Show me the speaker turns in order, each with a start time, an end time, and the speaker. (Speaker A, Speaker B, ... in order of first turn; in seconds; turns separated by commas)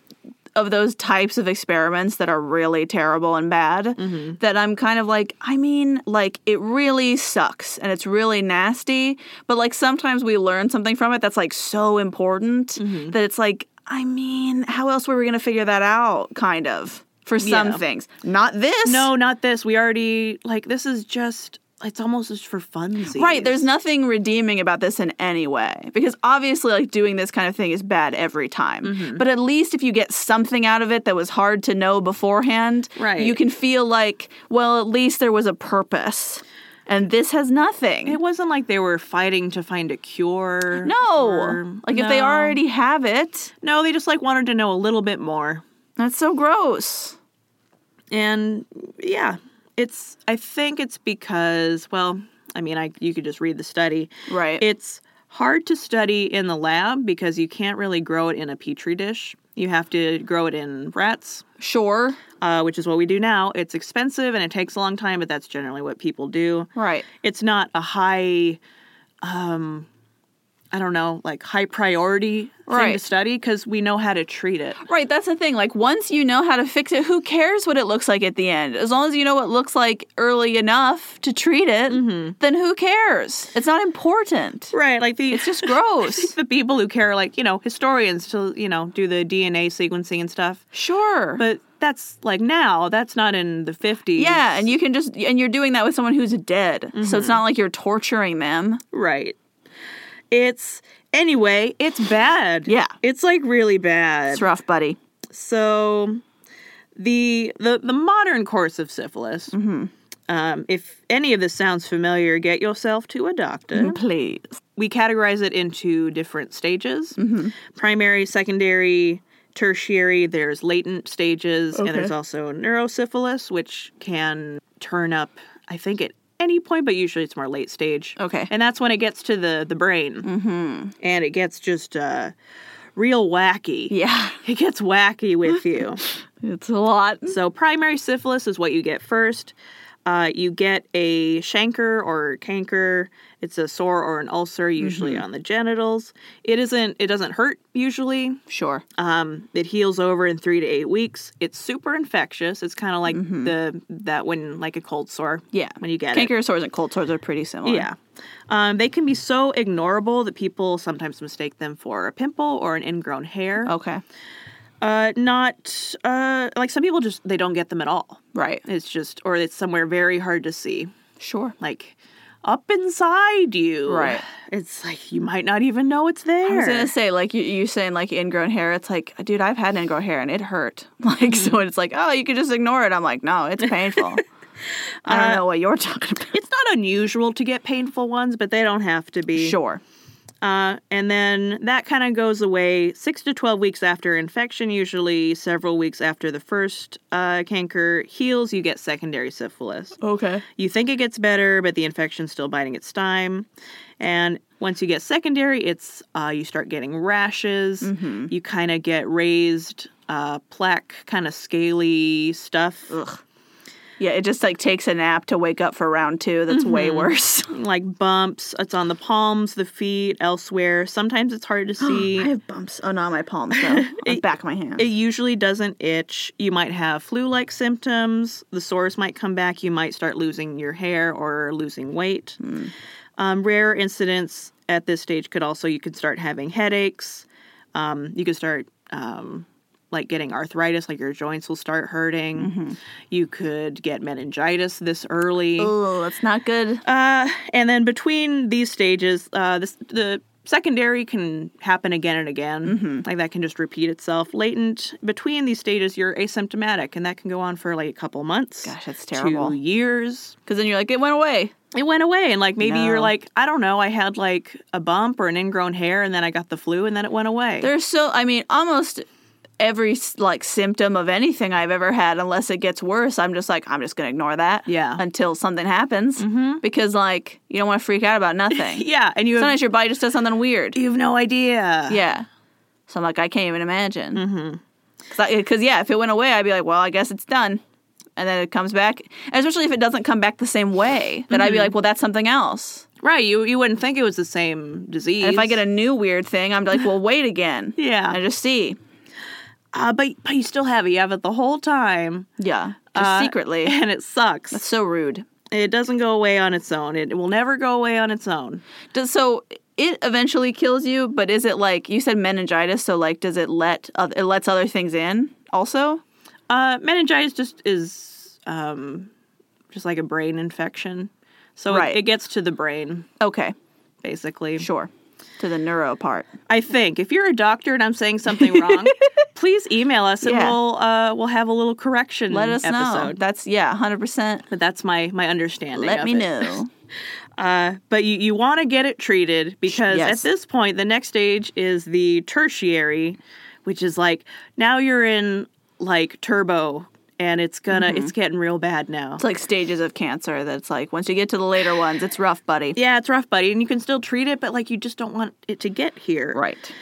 Speaker A: 0.6-19.1, Speaker B: 4.0-4.4, Speaker B: 12.8-13.2, Speaker B: 17.4-17.8, Speaker B: 18.9-23.7, Speaker A: 23.1-38.2, Speaker B: 28.8-29.2, Speaker B: 33.0-33.4, Speaker B: 38.1-42.6, Speaker A: 40.8-43.5, Speaker B: 43.6-45.6, Speaker A: 46.0-47.2, Speaker B: 48.1-61.5, Speaker A: 54.3-54.6, Speaker A: 61.6-62.2, Speaker B: 62.4-66.7, Speaker A: 66.8-67.1, Speaker B: 67.2-68.6, Speaker B: 69.2-69.9, Speaker B: 70.7-74.8, Speaker A: 72.7-73.0, Speaker A: 74.8-84.7, Speaker B: 81.9-82.4, Speaker B: 84.7-90.7, Speaker A: 85.3-86.3, Speaker A: 90.7-91.4, Speaker B: 91.4-94.5, Speaker A: 94.2-98.8, Speaker B: 96.9-97.4, Speaker B: 98.9-99.4, Speaker B: 100.3-104.5, Speaker A: 102.7-103.0, Speaker A: 104.3-105.0, Speaker B: 105.3-106.2, Speaker B: 107.0-109.5, Speaker A: 109.5-109.9, Speaker B: 110.3-114.0, Speaker A: 113.7-114.6, Speaker B: 114.8-130.3, Speaker A: 117.2-117.5, Speaker A: 121.8-122.1, Speaker A: 128.2-128.5, Speaker A: 130.2-130.9, Speaker B: 131.0-132.3, Speaker B: 132.9-136.0, Speaker A: 133.9-134.4, Speaker A: 136.1-137.4, Speaker B: 137.3-148.4, Speaker A: 144.8-145.2, Speaker A: 148.5-148.8, Speaker B: 148.9-156.3, Speaker A: 153.1-153.5, Speaker A: 155.5-157.9, Speaker B: 157.6-163.7, Speaker A: 163.7-164.0, Speaker B: 164.8-170.9, Speaker A: 168.3-168.6, Speaker A: 171.2-171.6, Speaker B: 171.6-176.9, Speaker A: 173.9-174.2, Speaker A: 176.4-184.2, Speaker B: 185.1-185.4, Speaker A: 185.1-186.4, Speaker B: 186.3-189.6, Speaker A: 189.4-189.8, Speaker B: 190.4-203.5, Speaker A: 200.0-200.4, Speaker B: 204.0-213.0, Speaker A: 207.8-208.3, Speaker A: 212.9-213.2, Speaker A: 214.0-217.6, Speaker B: 216.5-222.3, Speaker A: 221.8-224.9, Speaker B: 223.5-224.2, Speaker B: 224.8-232.4, Speaker A: 232.4-232.7, Speaker B: 233.2-242.5, Speaker A: 242.4-242.8, Speaker B: 243.1-245.7, Speaker A: 245.6-246.8, Speaker B: 246.8-260.4, Speaker A: 252.7-253.1, Speaker A: 258.6-259.6, Speaker A: 260.5-261.5, Speaker B: 261.7-267.7, Speaker A: 262.6-263.1, Speaker A: 267.6-269.1, Speaker A: 269.6-278.9, Speaker B: 274.7-275.0, Speaker B: 276.2-276.6, Speaker B: 278.5-279.6, Speaker A: 279.4-280.8, Speaker B: 280.8-282.0, Speaker A: 281.9-282.3, Speaker A: 282.9-284.2, Speaker B: 284.1-284.6, Speaker A: 285.1-287.6, Speaker A: 288.2-292.9, Speaker B: 291.3-291.7, Speaker B: 293.0-295.6, Speaker A: 295.2-298.8, Speaker B: 297.8-298.2, Speaker B: 299.7-302.3, Speaker A: 302.4-303.8, Speaker B: 302.9-304.7, Speaker A: 304.5-305.3, Speaker B: 305.5-308.6, Speaker A: 308.9-316.0, Speaker B: 316.5-319.1, Speaker B: 319.7-323.1, Speaker A: 321.7-322.0, Speaker A: 323.2-323.6, Speaker B: 324.0-324.7, Speaker A: 324.6-326.3, Speaker B: 326.5-333.2, Speaker A: 328.3-329.1, Speaker A: 330.2-330.6, Speaker A: 332.3-334.5, Speaker B: 334.5-336.6, Speaker A: 335.8-336.7, Speaker B: 337.4-349.2, Speaker A: 339.7-340.3, Speaker A: 347.7-348.1, Speaker A: 349.2-352.8, Speaker B: 352.8-356.4, Speaker A: 356.3-356.7